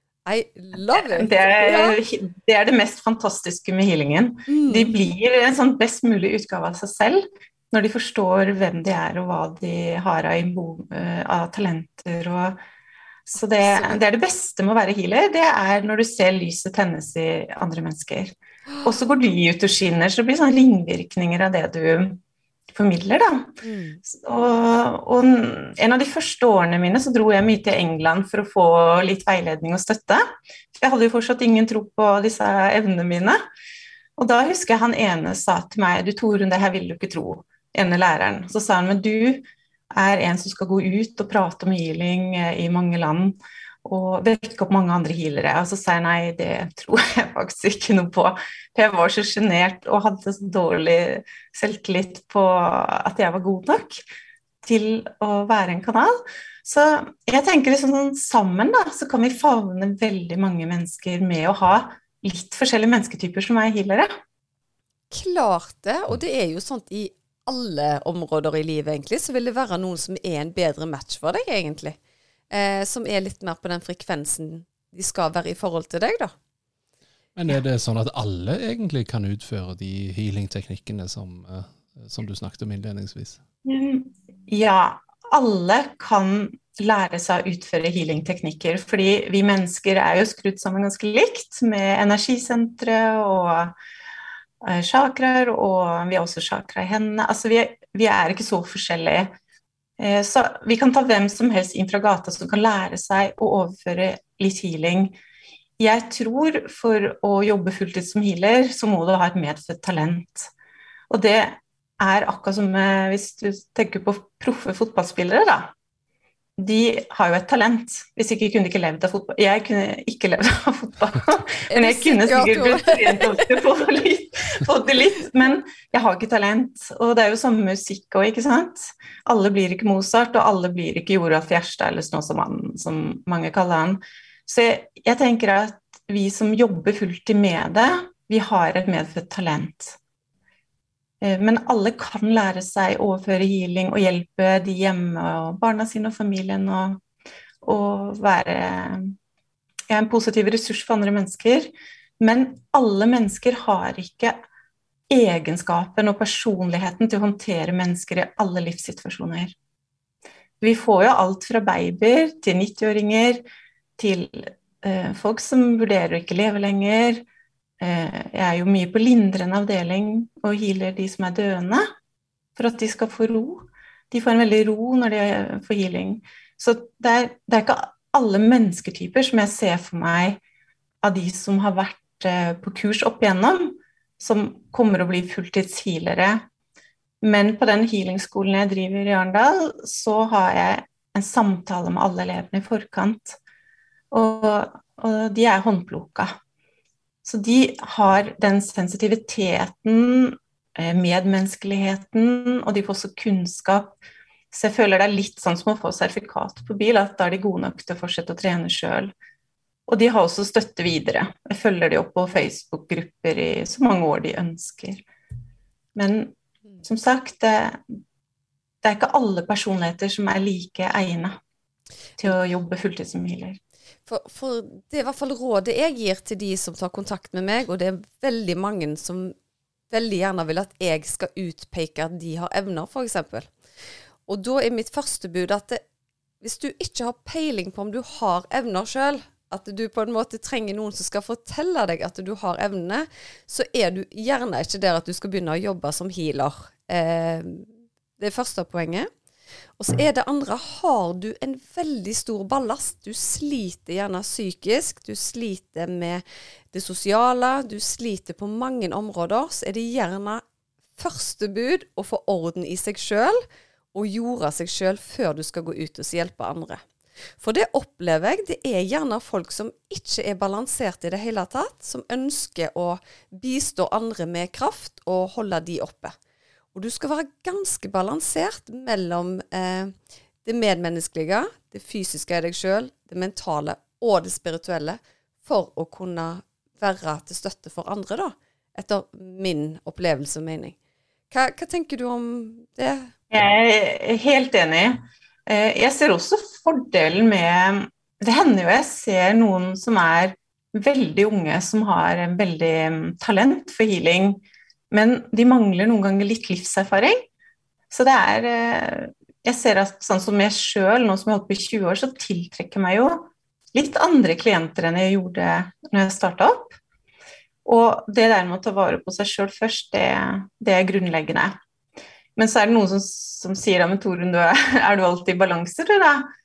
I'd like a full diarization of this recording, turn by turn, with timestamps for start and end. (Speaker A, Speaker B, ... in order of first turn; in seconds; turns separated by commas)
Speaker A: 0.3-2.0, Speaker B: 0.9-12.6, Speaker A: 4.5-4.9, Speaker B: 13.3-18.3, Speaker A: 13.6-14.0, Speaker B: 18.8-22.2, Speaker B: 22.7-33.4, Speaker A: 23.6-24.0, Speaker B: 34.2-54.0, Speaker B: 54.6-64.1, Speaker A: 65.1-72.0, Speaker A: 72.5-76.3, Speaker C: 77.4-83.4, Speaker B: 83.7-93.7, Speaker B: 94.6-99.3, Speaker B: 100.0-105.2, Speaker B: 105.8-110.5, Speaker B: 111.1-115.7, Speaker B: 116.6-140.0, Speaker A: 121.7-123.5, Speaker B: 141.2-147.0, Speaker B: 147.6-149.1, Speaker B: 149.9-154.4, Speaker B: 155.1-159.6, Speaker B: 160.6-163.4, Speaker B: 164.0-167.2, Speaker B: 167.8-171.9, Speaker B: 172.6-180.4, Speaker B: 181.0-186.4, Speaker B: 187.2-193.4, Speaker B: 194.1-196.3, Speaker B: 197.2-203.9, Speaker B: 204.5-209.1, Speaker B: 209.9-215.0, Speaker B: 215.9-217.8, Speaker B: 218.8-221.3, Speaker B: 222.2-223.6, Speaker A: 224.1-229.3, Speaker A: 229.9-233.5, Speaker A: 234.3-235.8, Speaker A: 236.4-247.7, Speaker A: 248.2-249.1, Speaker A: 249.8-260.4, Speaker A: 261.0-263.4, Speaker A: 263.9-266.8, Speaker A: 267.4-276.1, Speaker A: 276.7-279.9, Speaker A: 280.4-290.8, Speaker A: 291.3-293.1, Speaker B: 293.3-307.2, Speaker B: 307.9-316.8, Speaker B: 317.6-321.5, Speaker B: 322.4-326.3